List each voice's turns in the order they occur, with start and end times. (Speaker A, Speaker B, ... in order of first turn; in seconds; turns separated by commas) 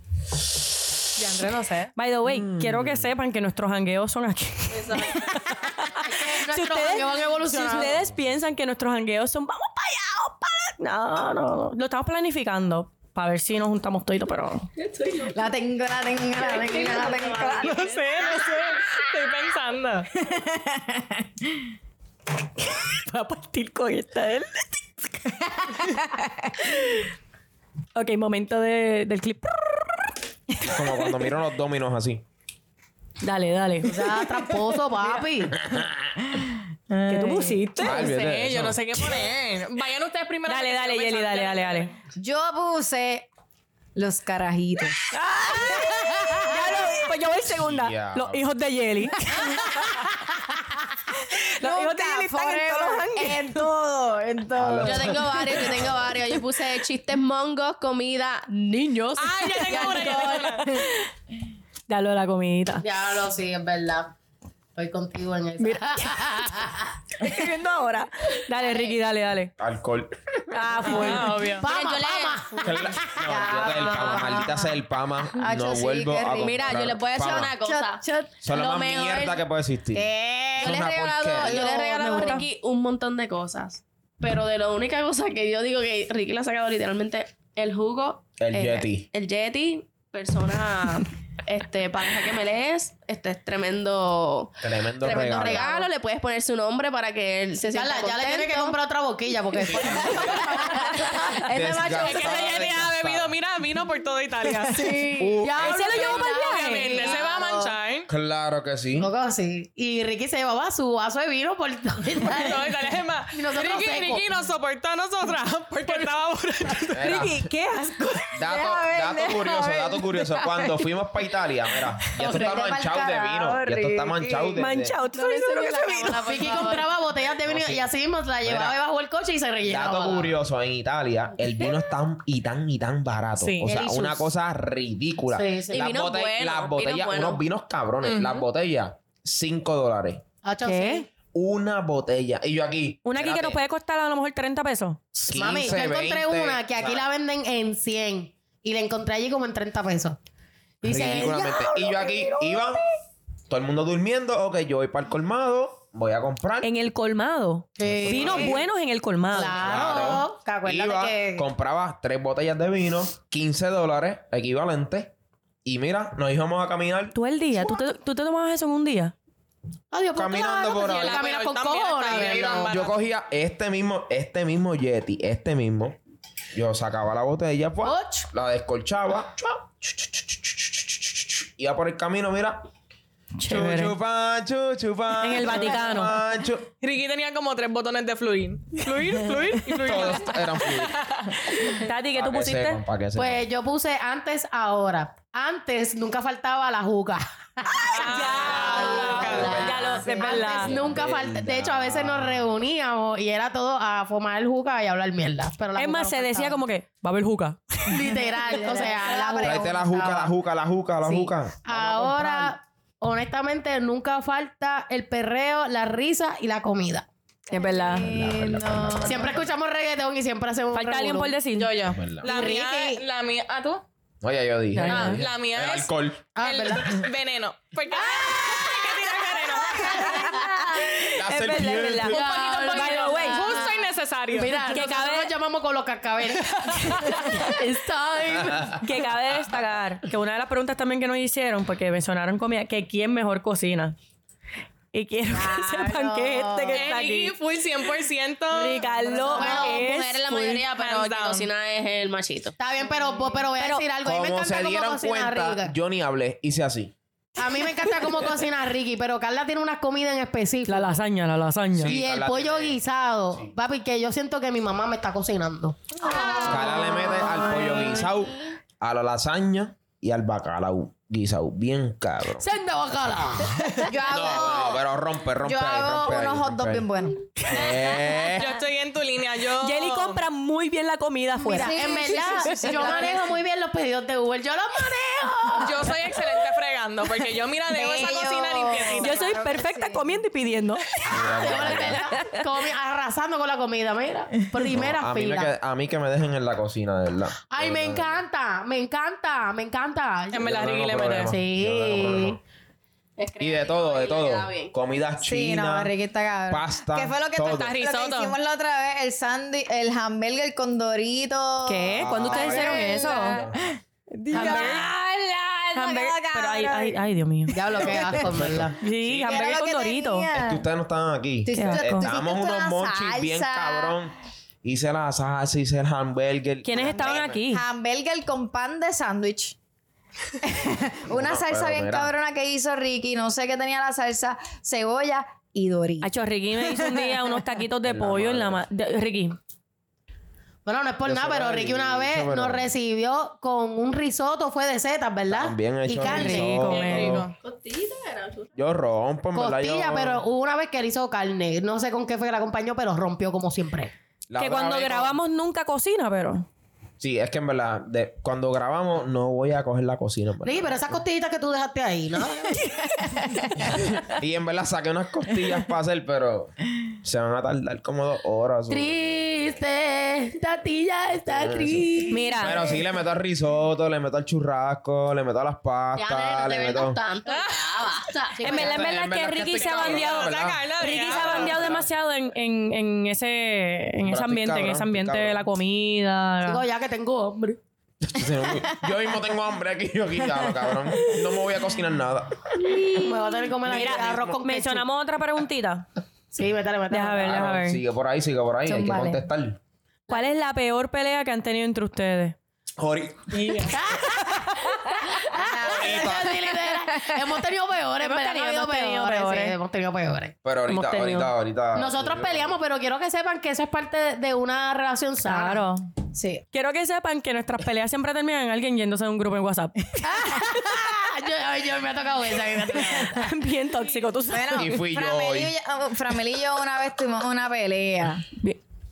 Speaker A: 1.1-1.9, Speaker B: 1.9-14.7, Speaker C: 2.2-3.1, Speaker D: 4.8-5.3, Speaker E: 5.9-8.0, Speaker D: 14.9-15.3, Speaker F: 15.3-18.6, Speaker D: 16.4-17.8, Speaker A: 17.6-20.1, Speaker F: 20.2-21.2, Speaker B: 22.8-24.8, Speaker F: 25.5-26.5, Speaker B: 27.9-30.1, Speaker C: 30.6-32.2, Speaker B: 33.2-34.2, Speaker E: 33.8-35.6, Speaker C: 35.6-36.1, Speaker F: 36.9-37.6, Speaker B: 37.1-38.1, Speaker A: 37.8-41.9, Speaker C: 37.8-38.8, Speaker B: 40.5-41.9, Speaker F: 42.2-43.3, Speaker F: 43.9-47.2, Speaker B: 45.1-50.0, Speaker C: 47.5-48.5, Speaker F: 49.4-50.2, Speaker B: 51.6-53.7, Speaker F: 51.6-55.6, Speaker C: 54.5-56.1, Speaker D: 54.8-58.5, Speaker F: 58.6-60.5, Speaker A: 59.1-60.7, Speaker B: 59.2-61.1, Speaker D: 59.7-60.0, Speaker B: 61.9-62.8, Speaker E: 62.8-64.1, Speaker E: 64.8-66.9, Speaker B: 65.6-66.6, Speaker B: 67.2-69.5, Speaker C: 69.6-70.3, Speaker B: 70.5-71.5, Speaker A: 70.9-71.6, Speaker D: 71.5-72.8, Speaker E: 71.5-74.2, Speaker C: 72.6-77.5, Speaker F: 73.3-74.7, Speaker D: 73.5-74.4, Speaker F: 75.4-76.7, Speaker D: 76.3-79.4, Speaker F: 77.6-78.3, Speaker C: 78.4-81.6, Speaker F: 80.0-82.4, Speaker D: 80.6-98.8, Speaker B: 81.8-82.4, Speaker C: 88.4-89.1, Speaker C: 94.6-95.8, Speaker E: 95.1-95.7, Speaker E: 97.7-101.3, Speaker C: 99.7-100.6, Speaker D: 99.8-102.3, Speaker B: 100.7-101.3, Speaker C: 101.5-103.3, Speaker A: 102.0-104.9, Speaker F: 104.6-105.2, Speaker B: 104.8-107.1, Speaker C: 105.2-105.8, Speaker E: 105.3-107.8, Speaker A: 105.6-108.1, Speaker C: 108.1-109.1, Speaker E: 109.0-114.3, Speaker A: 112.3-117.0, Speaker C: 116.9-117.5, Speaker B: 117.0-118.2, Speaker F: 117.8-120.8, Speaker C: 118.3-124.9, Speaker F: 122.0-124.7, Speaker B: 124.5-126.7, Speaker D: 125.1-126.9, Speaker F: 125.4-126.2, Speaker E: 126.1-130.3, Speaker C: 127.5-127.9, Speaker C: 128.4-128.8, Speaker C: 129.6-140.2, Speaker A: 133.4-133.7, Speaker E: 133.7-134.3, Speaker E: 135.3-135.9, Speaker D: 135.7-137.4, Speaker A: 138.0-138.4, Speaker E: 140.4-141.1, Speaker B: 140.6-141.1, Speaker C: 141.3-143.6, Speaker B: 143.1-145.0, Speaker C: 145.2-147.1, Speaker E: 145.2-150.2, Speaker E: 150.8-152.6, Speaker C: 150.8-152.8, Speaker C: 153.5-156.7, Speaker B: 156.6-159.7, Speaker E: 157.8-158.6, Speaker C: 157.8-158.6, Speaker E: 159.3-161.4, Speaker C: 159.5-165.1, Speaker C: 165.6-167.1, Speaker B: 167.1-169.1, Speaker E: 169.9-172.8, Speaker C: 170.1-171.3, Speaker A: 170.8-172.9, Speaker C: 172.1-176.0, Speaker C: 176.5-182.7, Speaker E: 177.8-178.3, Speaker B: 183.4-183.9, Speaker C: 183.4-186.7, Speaker B: 185.2-186.2, Speaker A: 186.8-191.7, Speaker C: 189.7-191.1, Speaker B: 191.6-192.8, Speaker C: 192.1-193.4, Speaker E: 193.2-206.6, Speaker A: 197.7-199.7, Speaker B: 197.9-200.7, Speaker C: 199.2-202.5, Speaker B: 205.7-208.6, Speaker E: 207.9-210.3, Speaker F: 208.5-209.9, Speaker C: 209.4-212.5, Speaker E: 211.0-217.1, Speaker B: 217.5-218.1, Speaker F: 217.5-219.4, Speaker C: 218.1-219.3, Speaker E: 219.0-221.4, Speaker B: 220.7-221.7, Speaker A: 221.5-223.8, Speaker C: 221.9-222.3, Speaker E: 222.2-223.0, Speaker C: 224.2-226.3, Speaker B: 224.7-225.2, Speaker A: 224.8-230.2, Speaker E: 226.3-227.0, Speaker E: 228.2-228.6, Speaker B: 229.7-233.7, Speaker E: 229.8-230.4, Speaker C: 231.1-232.4, Speaker E: 232.1-238.6, Speaker A: 232.1-234.8, Speaker B: 234.7-235.3, Speaker B: 236.6-243.9, Speaker A: 236.7-237.2, Speaker C: 238.3-238.8, Speaker B: 244.9-247.4, Speaker F: 245.3-246.8, Speaker A: 246.7-249.0, Speaker B: 248.5-250.6, Speaker E: 249.2-249.8, Speaker D: 249.3-252.6, Speaker A: 250.7-251.5, Speaker E: 252.6-255.7, Speaker B: 253.6-253.8, Speaker C: 254.0-256.9, Speaker E: 257.4-261.0, Speaker B: 260.6-261.9, Speaker C: 261.7-262.8, Speaker E: 261.9-266.8, Speaker F: 266.0-268.0, Speaker C: 266.4-272.5, Speaker E: 272.4-273.9, Speaker F: 273.8-274.8, Speaker C: 274.1-276.9, Speaker F: 275.4-277.3, Speaker C: 277.4-278.6, Speaker A: 278.3-280.2, Speaker B: 279.6-283.0, Speaker E: 281.4-286.1, Speaker F: 281.5-283.3, Speaker A: 285.6-289.1, Speaker F: 287.7-290.2, Speaker B: 288.9-290.9, Speaker C: 291.1-292.1, Speaker E: 291.1-295.5, Speaker B: 291.7-292.4, Speaker C: 294.7-298.2, Speaker E: 297.5-300.5, Speaker A: 300.3-301.3, Speaker C: 300.4-302.4, Speaker E: 301.2-302.4, Speaker D: 303.2-304.7, Speaker C: 303.4-305.9, Speaker F: 305.2-318.3, Speaker C: 306.5-307.8, Speaker A: 307.5-308.4, Speaker B: 311.6-313.4, Speaker C: 311.9-313.6, Speaker B: 314.3-314.9, Speaker B: 315.7-317.6, Speaker E: 317.5-318.8, Speaker C: 317.7-319.3, Speaker B: 318.8-320.2, Speaker F: 319.1-320.6, Speaker C: 320.3-327.4, Speaker F: 321.4-323.9, Speaker B: 321.5-322.1, Speaker B: 326.6-327.6, Speaker F: 326.8-329.5, Speaker F: 330.4-337.4, Speaker C: 331.1-332.1, Speaker B: 336.0-339.4, Speaker C: 337.8-338.6, Speaker E: 340.6-346.7, Speaker C: 341.0-342.7, Speaker C: 345.3-347.3, Speaker B: 346.0-347.2, Speaker A: 346.7-347.4, Speaker D: 347.4-348.5, Speaker C: 348.6-350.2, Speaker E: 349.3-353.9, Speaker C: 354.3-355.2, Speaker B: 354.4-356.5, Speaker C: 357.0-361.0, Speaker E: 360.4-362.6, Speaker B: 362.7-363.4, Speaker C: 363.6-369.5, Speaker E: 368.7-372.7, Speaker C: 371.2-377.0, Speaker B: 372.1-372.6, Speaker D: 376.0-378.5, Speaker A: 377.2-377.8, Speaker E: 378.3-378.9, Speaker B: 378.4-386.6, Speaker C: 378.4-381.9, Speaker A: 379.5-381.8, Speaker C: 384.0-385.5, Speaker E: 386.4-387.6, Speaker C: 388.0-392.5, Speaker B: 392.6-395.9, Speaker E: 392.8-394.8, Speaker E: 396.3-397.4, Speaker B: 396.9-397.8, Speaker C: 397.1-399.6, Speaker F: 398.6-399.2, Speaker B: 400.1-402.4, Speaker C: 402.8-403.8, Speaker E: 403.6-410.3, Speaker F: 405.4-407.1, Speaker C: 405.6-406.4, Speaker B: 408.0-409.5, Speaker C: 410.4-412.6, Speaker B: 410.7-411.3, Speaker E: 411.7-415.6, Speaker B: 415.2-415.9, Speaker F: 416.1-416.4, Speaker B: 416.5-419.8, Speaker E: 420.0-423.3, Speaker B: 423.1-424.8, Speaker F: 424.3-428.2, Speaker C: 424.6-425.5